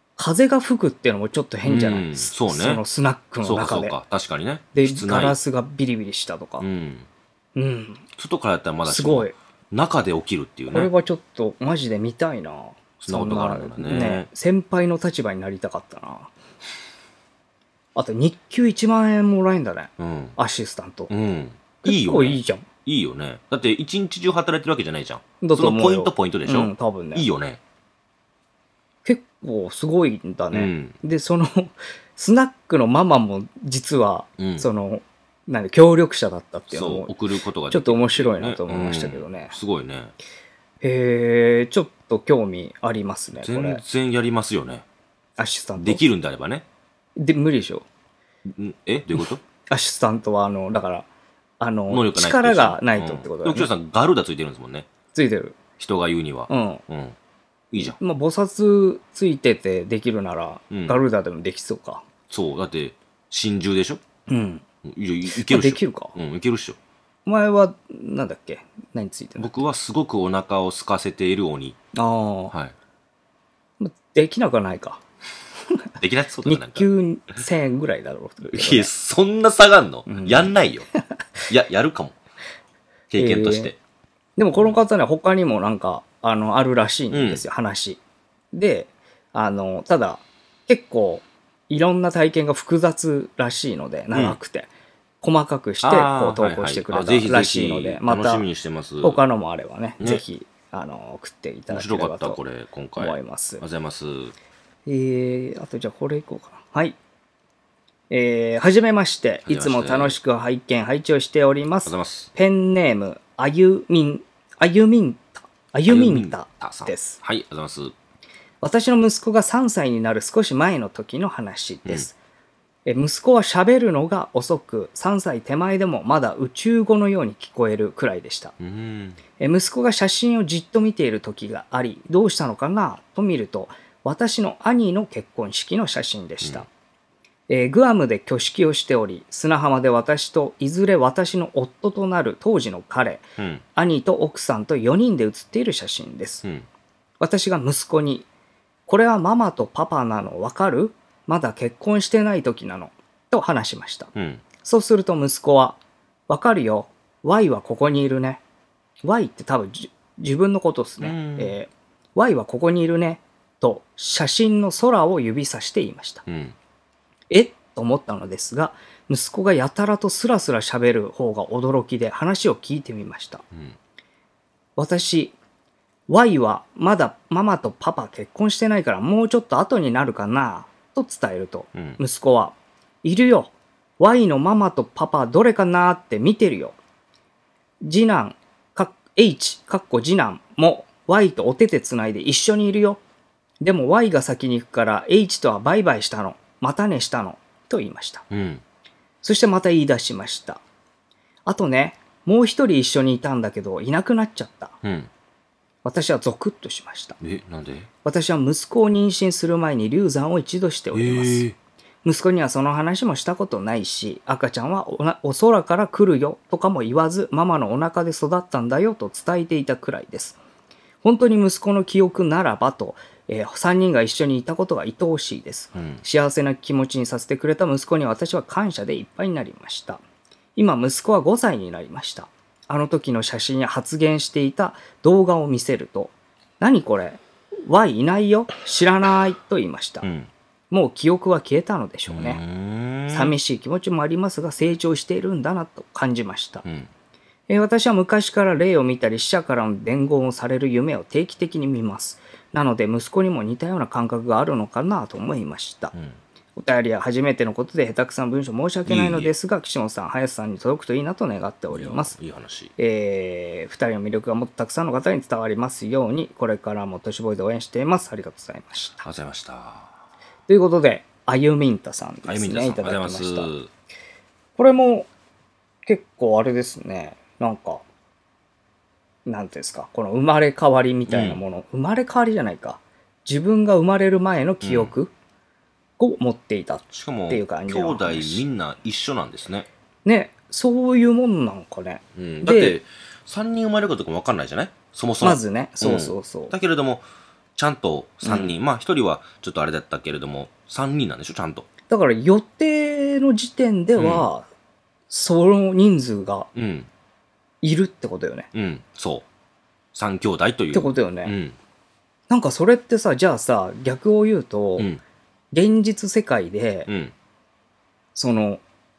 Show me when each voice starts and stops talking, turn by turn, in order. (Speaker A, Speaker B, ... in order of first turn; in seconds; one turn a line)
Speaker A: 0.2-4.0
Speaker B: 1.6-2.8
Speaker B: 3.4-5.4
Speaker A: 4.7-6.6
Speaker B: 6.6-7.1
Speaker A: 7.5-8.0
Speaker B: 8.2-10.9
Speaker A: 8.8-9.3
Speaker A: 10.7-16.3
Speaker B: 13.0-14.3
Speaker A: 17.9-21.1
Speaker B: 20.0-20.4
Speaker B: 21.1-27.6
Speaker A: 21.8-22.6
Speaker A: 25.4-27.3
Speaker A: 29.0-37.1
Speaker B: 30.5-30.9
Speaker B: 34.4-34.7
Speaker B: 36.7-40.1
Speaker A: 37.7-39.5
Speaker A: 40.8-43.8
Speaker B: 43.4-44.8
Speaker A: 45.4-46.0
Speaker B: 45.8-46.6
Speaker A: 47.2-47.9
Speaker B: 48.5-49.4
Speaker A: 49.7-51.0
Speaker A: 51.6-53.7
Speaker B: 51.9-54.9
Speaker A: 55.1-55.6
Speaker B: 55.8-57.1
Speaker A: 56.5-56.8
Speaker B: 57.7-58.0
Speaker A: 57.8-62.0
Speaker B: 60.7-61.0
Speaker B: 62.3-64.0
Speaker A: 64.3-64.6
Speaker B: 64.8-66.8
Speaker A: 65.3-66.1
Speaker A: 67.2-69.6
Speaker B: 69.4-71.8
Speaker A: 71.9-72.5
Speaker A: 73.8-75.0
Speaker B: 76.0-76.9
Speaker A: 76.5-78.9
Speaker B: 78.5-80.9
Speaker A: 80.1-81.0
Speaker B: 81.5-82.1
Speaker B: 83.1-83.8
Speaker A: 83.2-83.7
Speaker A: 84.4-88.0
Speaker B: 87.1-87.4
Speaker A: 88.5-94.7
Speaker B: 94.1-94.4
Speaker A: 95.2-98.5
Speaker B: 95.8-99.2
Speaker A: 99.0-102.4
Speaker B: 101.7-104.3
Speaker A: 103.0-103.6
Speaker A: 104.8-107.0
Speaker A: 108.1-117.2
Speaker B: 109.5-110.2
Speaker B: 111.8-112.3
Speaker B: 115.9-117.9
Speaker A: 118.6-122.1
Speaker A: 122.8-128.5
Speaker B: 128.6-129.2
Speaker A: 129.4-136.7
Speaker A: 137.5-146.4
Speaker B: 143.4-143.6
Speaker A: 147.2-148.3
Speaker A: 148.9-158.4
Speaker B: 154.1-154.4
Speaker A: 159.0-166.2
Speaker B: 161.0-161.5
Speaker B: 166.2-166.6
Speaker A: 167.3-173.4
Speaker A: 174.8-175.3
Speaker A: 176.1-186.8
Speaker B: 181.7-182.0
Speaker A: 187.8-193.0
Speaker A: 193.6-198.2
Speaker B: 198.3-198.6
Speaker A: 199.2-200.6
Speaker A: 201.5-204.8
Speaker B: 204.8-205.1
Speaker A: 205.8-207.2
Speaker B: 207.2-207.9
Speaker A: 208.0-211.5
Speaker B: 210.9-211.6
Speaker A: 212.0-220.4
Speaker A: 221.0-230.0
Speaker B: 225.8-226.0
Speaker A: 230.6-240.1
Speaker B: 240.0-240.3
Speaker A: 240.7-242.4
Speaker B: 242.1-243.3
Speaker A: 243.1-246.6
Speaker B: 246.6-246.9
Speaker A: 247.5-255.9
Speaker A: 256.6-262.1
Speaker B: 258.9-259.3
Speaker B: 261.7-262.7
Speaker A: 262.8-269.0
Speaker B: 269.0-270.0
Speaker A: 270.5-273.5
Speaker B: 272.2-273.7
Speaker A: 274.6-275.1
Speaker A: 275.9-277.8
Speaker A: 279.2-285.1
Speaker B: 281.1-281.4
Speaker B: 284.6-284.9
Speaker A: 286.0-288.4
Speaker B: 286.9-289.7
Speaker A: 290.0-292.8
Speaker B: 292.1-297.0
Speaker A: 295.2-296.5
Speaker B: 297.6-301.6
Speaker A: 298.2-298.5
Speaker A: 301.9-304.5
Speaker B: 304.0-304.3
Speaker A: 305.1-306.5
Speaker B: 306.5-306.9
Speaker A: 307.6-308.5
Speaker B: 308.5-309.2
Speaker B: 309.9-311.6
Speaker A: 310.7-311.3
Speaker A: 312.3-314.9
Speaker A: 315.5-316.9
Speaker B: 316.9-317.1
Speaker A: 318.1-318.6